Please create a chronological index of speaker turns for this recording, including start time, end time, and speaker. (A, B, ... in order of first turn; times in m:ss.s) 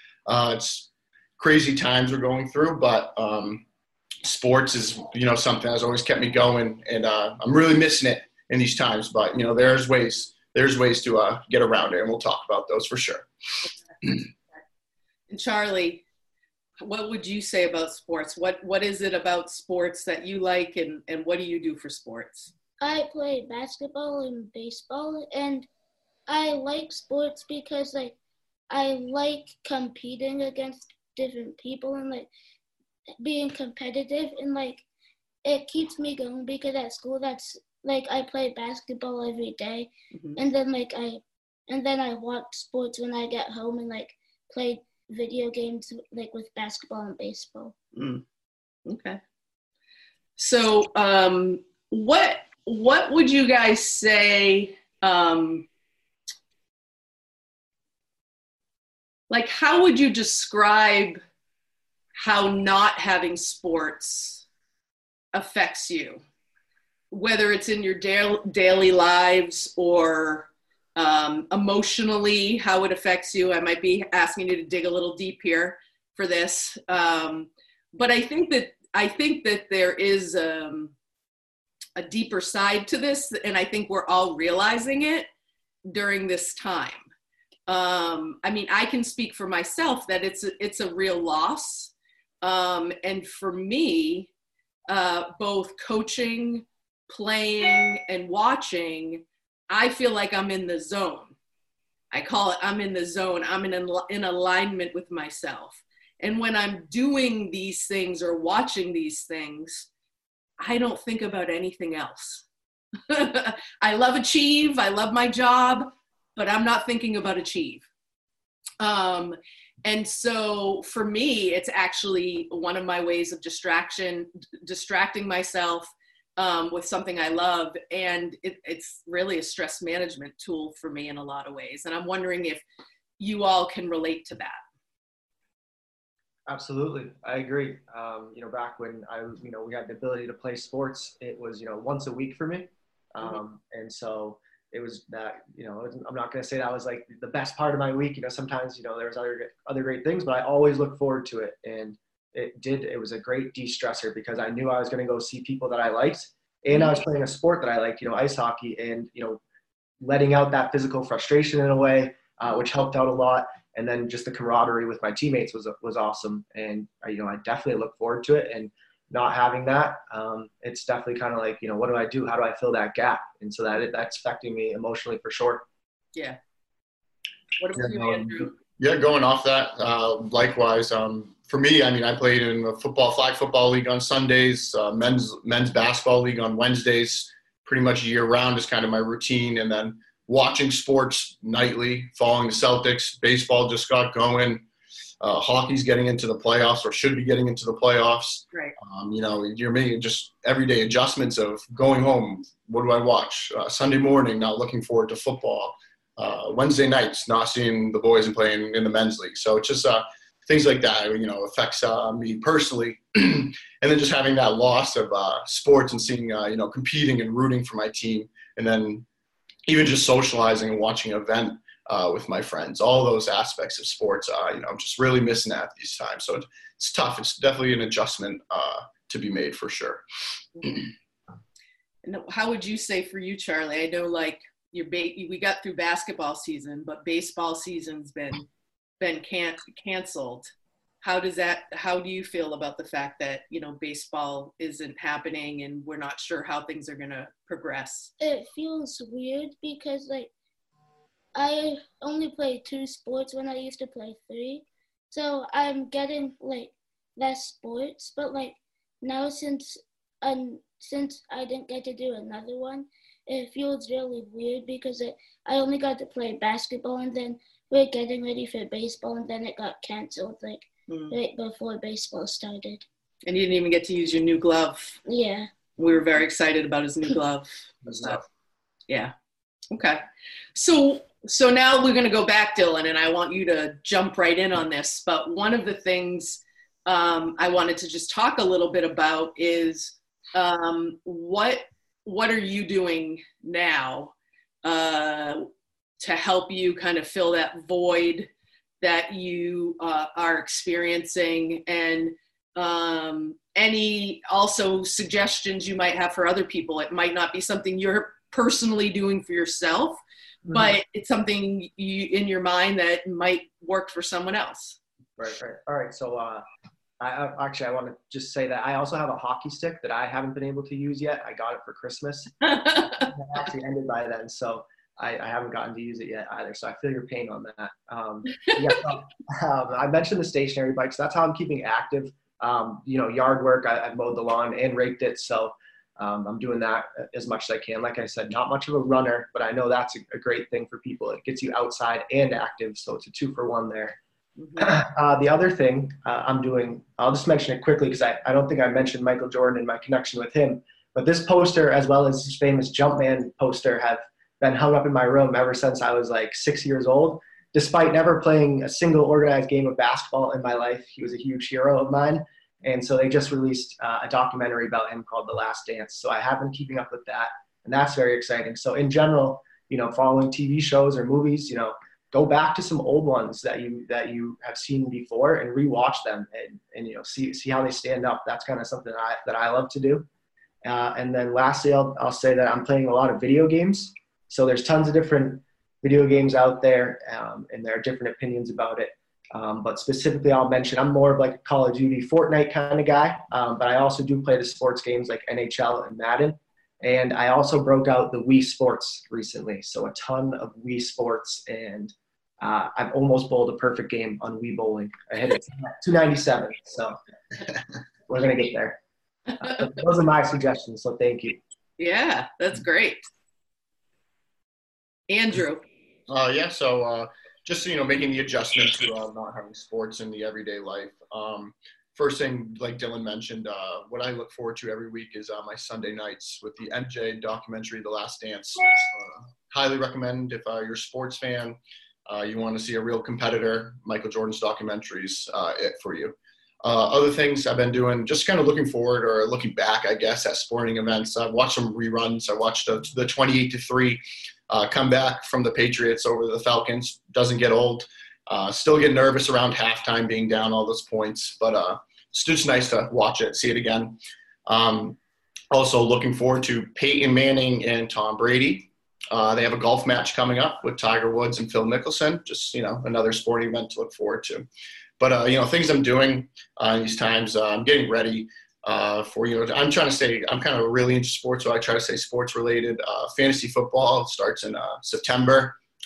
0:00.3-0:03.7 A
0:04.2-0:14.2 A
0:15.3-0:16.0 B
0:16.8-0:22.5 B
0:22.8-0:25.7 C
0:26.3-0:28.2 C
0:28.7-0:32.3 C
0:33.2-0:34.8 C
0:35.4-0:47.8 C
0:40.1-0:40.4 B
0:48.0-0:48.2 B
0:48.9-0:49.2 B
0:50.4-0:55.7 B
0:59.3-1:01.2 B
1:02.2-1:04.4 B
1:05.3-1:06.2 B
1:07.1-1:20.9 B
1:22.0-1:25.3 B
1:25.8-1:27.1 B
1:27.7-1:34.3 B
1:34.9-1:41.4 B
1:42.1-1:49.9 B
1:50.6-1:52.5 B
1:53.1-1:57.9 B
1:58.8-2:12.6 B
2:13.2-2:14.6 B
2:16.5-2:39.4 D
2:36.7-2:37.0 B
2:40.0-2:55.6 D
2:57.6-2:58.5 B
2:58.8-3:14.6 A
3:15.2-3:39.0 A
3:39.7-3:50.0 A
3:52.0-3:58.5 B
3:59.0-4:00.5 B
4:01.0-4:08.1 B
4:08.2-4:10.3 C
4:11.4-4:32.8 C
4:30.9-4:31.2 B
4:33.3-4:35.0 B
4:35.1-4:35.5 C
4:35.8-4:38.2 B
4:37.9-4:38.1 D
4:38.9-4:39.1 B
4:39.7-4:40.0 B
4:40.6-4:55.4 B
4:56.0-4:58.3 B
4:58.8-5:14.8 B
5:10.4-5:10.8 D
5:15.2-5:16.4 D
5:17.0-5:44.0 D
5:22.4-5:23.1 B
5:44.4-5:44.7 B
5:44.6-6:20.1 D
6:20.6-6:47.0 D
6:48.1-6:48.8 D
6:49.4-6:51.4 D
6:51.8-6:53.0 B
6:55.1-6:55.6 B
6:56.1-7:35.0 A
7:35.5-7:44.5 A
7:45.0-7:55.6 A